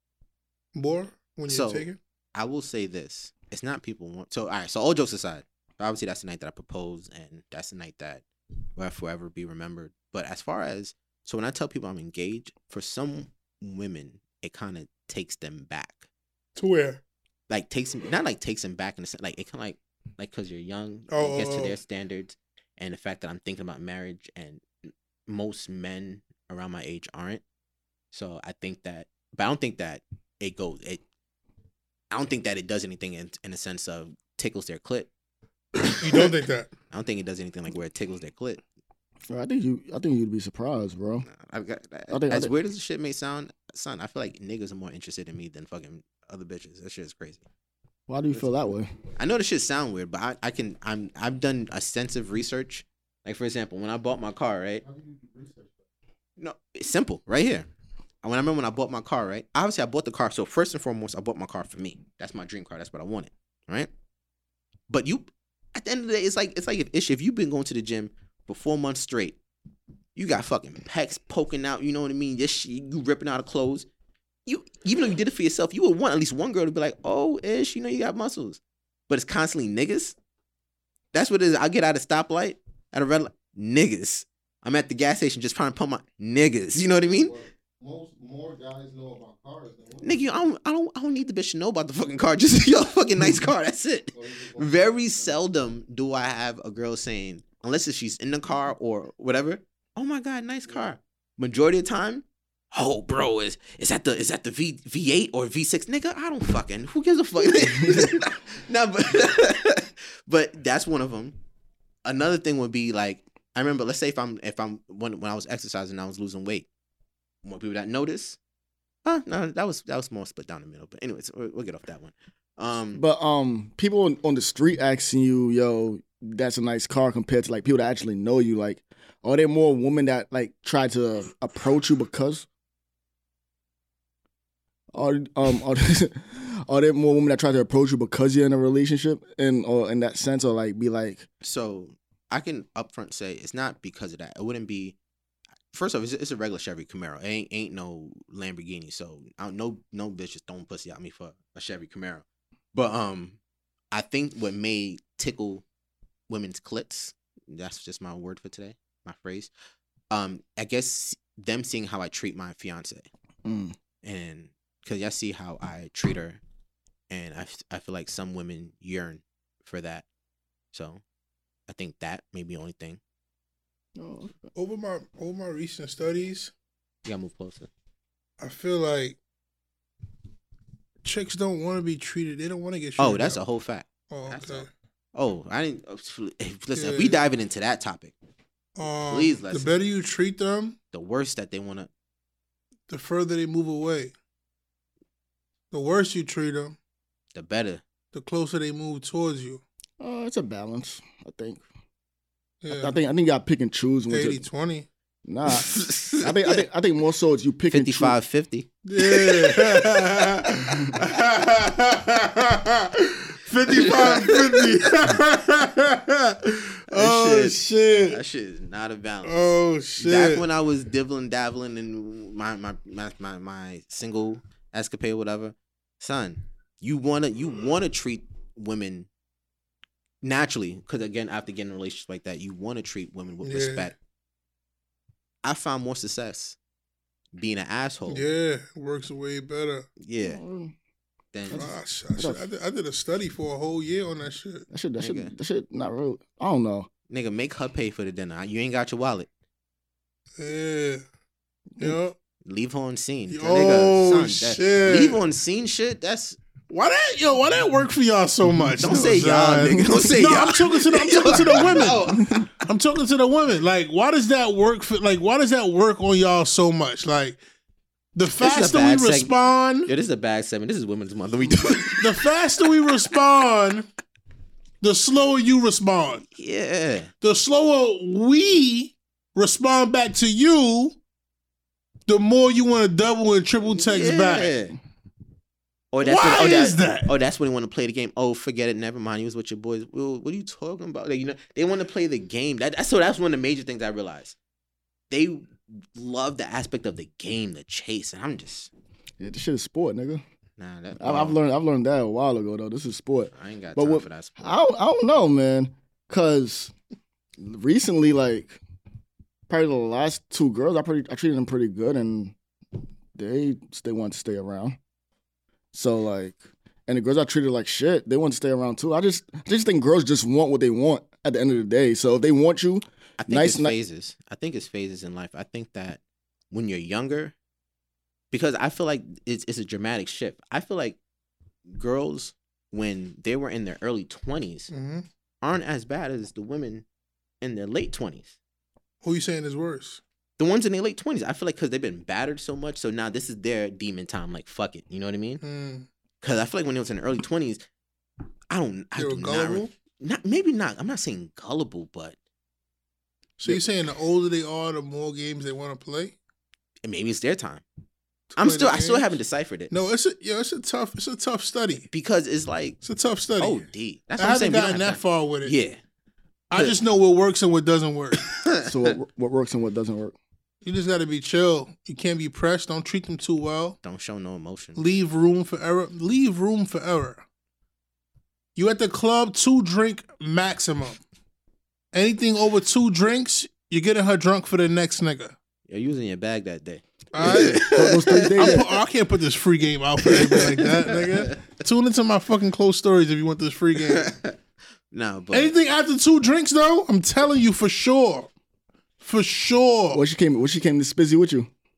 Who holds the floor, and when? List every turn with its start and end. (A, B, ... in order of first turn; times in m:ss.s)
0:00.8-0:02.0 A
0:01.5-0:08.2 B
0:08.8-0:16.1 B
0:16.6-0:17.0 A
0:17.5-0:27.4 B
0:21.1-0:21.8 A
0:28.1-0:31.0 B
0:32.1-0:35.1 B
0:35.9-0:36.7 A
0:36.9-0:38.6 B
0:39.3-0:41.3 C
0:41.3-0:47.4 B
0:42.1-0:42.5 C
0:48.1-0:48.9 C
0:49.2-0:54.8 B
0:54.8-0:55.8 D
0:56.4-0:57.7 B
0:58.2-1:03.9 B
1:04.9-1:09.4 B
1:10.2-1:13.9 B
1:14.5-1:20.2 B
1:21.1-1:27.3 B
1:26.8-1:30.2 D
1:30.0-1:51.4 B
1:34.1-1:35.4 D
1:40.7-1:41.0 D
1:52.0-1:56.7 B
1:57.4-1:58.4 B
1:59.0-2:03.0 B
2:02.9-2:12.5 C
2:14.9-2:21.3 C
2:21.4-2:25.0 B
2:25.7-2:33.4 B
2:33.9-2:35.6 B
2:36.3-2:39.5 B
2:40.1-2:43.1 B
2:43.4-2:43.8 C
2:44.0-2:46.4 B
2:47.1-2:50.1 B
2:50.7-2:51.0 B
2:51.7-2:53.0 B
2:54.0-2:54.5 C
2:54.6-2:56.5 A
2:57.1-2:57.7 B
2:58.4-2:59.2 A
3:01.0-3:03.4 A
3:03.0-3:08.1 B
3:04.1-3:04.7 A
3:06.8-3:07.2 A
3:08.8-3:10.8 A
3:09.1-3:09.7 B
3:10.9-3:11.9 B
3:12.9-3:14.1 A
3:15.7-3:16.8 A
3:17.3-3:17.8 B
3:18.1-3:19.6 A
3:20.0-3:21.6 C
3:22.6-3:23.0 A
3:22.7-3:24.5 C
3:24.1-3:24.9 A
3:25.2-3:28.2 C
3:25.5-3:26.6 B
3:27.7-3:29.6 B
3:28.8-3:38.2 A
3:33.7-3:34.7 B
3:36.9-3:37.6 B
3:37.1-3:37.4 C
3:38.1-3:49.1 B
3:39.2-3:40.4 A
3:50.2-3:53.9 B
3:53.4-3:53.9 A
3:55.4-3:56.6 B
3:57.3-3:58.3 B
3:58.1-3:59.9 A
4:00.0-4:00.4 B
4:00.2-4:00.7 C
4:01.3-4:01.7 B
4:01.5-4:02.4 C
4:01.5-4:04.6 A
4:04.7-4:06.9 C
4:05.0-4:05.3 B
4:07.1-4:09.3 B
4:10.4-4:11.0 A
4:11.8-4:12.2 A
4:12.4-4:16.4 B
4:13.3-4:15.2 A
4:16.7-4:27.4 A
4:18.8-4:22.5 B
4:21.9-4:22.4 C
4:28.2-4:29.9 A
4:28.4-4:29.3 B
4:29.9-4:32.1 B
4:31.7-4:33.9 A
4:34.8-4:36.2 A
4:36.3-4:37.1 B
4:37.2-4:41.0 A
4:42.1-4:44.5 A
4:43.7-4:44.8 B
4:45.9-4:54.4 B
4:46.0-4:47.1 A
4:55.1-4:58.7 B
4:59.2-5:00.2 C
5:00.6-5:01.4 B
5:01.0-5:06.7 C
5:03.3-5:04.6 B
5:07.4-5:08.6 C
5:09.5-5:12.4 C
5:13.2-5:14.8 C
5:15.7-5:23.8 C
5:23.2-5:27.4 B
5:28.3-5:31.0 B
5:31.7-5:34.7 B
5:34.7-5:35.1 A
5:35.4-5:36.8 B
5:37.4-5:38.4 B
5:39.0-5:40.0 A
5:40.4-5:45.4 B
5:45.4-5:45.9 A
5:46.2-5:47.6 B
5:48.5-5:52.2 B
5:49.0-5:49.7 A
5:53.4-5:56.2 A
5:56.8-5:57.6 B
5:58.3-5:59.2 A
5:58.4-5:59.7 B
5:59.7-6:01.9 A
6:01.9-6:02.8 B
6:02.8-6:03.7 A
6:03.4-6:05.8 B
6:04.2-6:05.6 A
6:06.5-6:08.3 A
6:08.2-6:09.0 B
6:08.6-6:10.2 C
6:10.6-6:13.8 A
6:13.8-6:14.8 B
6:14.8-6:17.2 A
6:18.6-6:21.0 A
6:21.9-6:25.3 A
6:25.7-6:28.7 B
6:27.1-6:27.7 A
6:27.7-6:28.7 C
6:28.4-6:34.1 A
6:30.0-6:31.0 B
6:33.9-6:34.4 B
6:34.9-6:35.5 B
6:35.3-6:38.3 A
6:39.0-6:40.0 A
6:39.9-6:41.5 C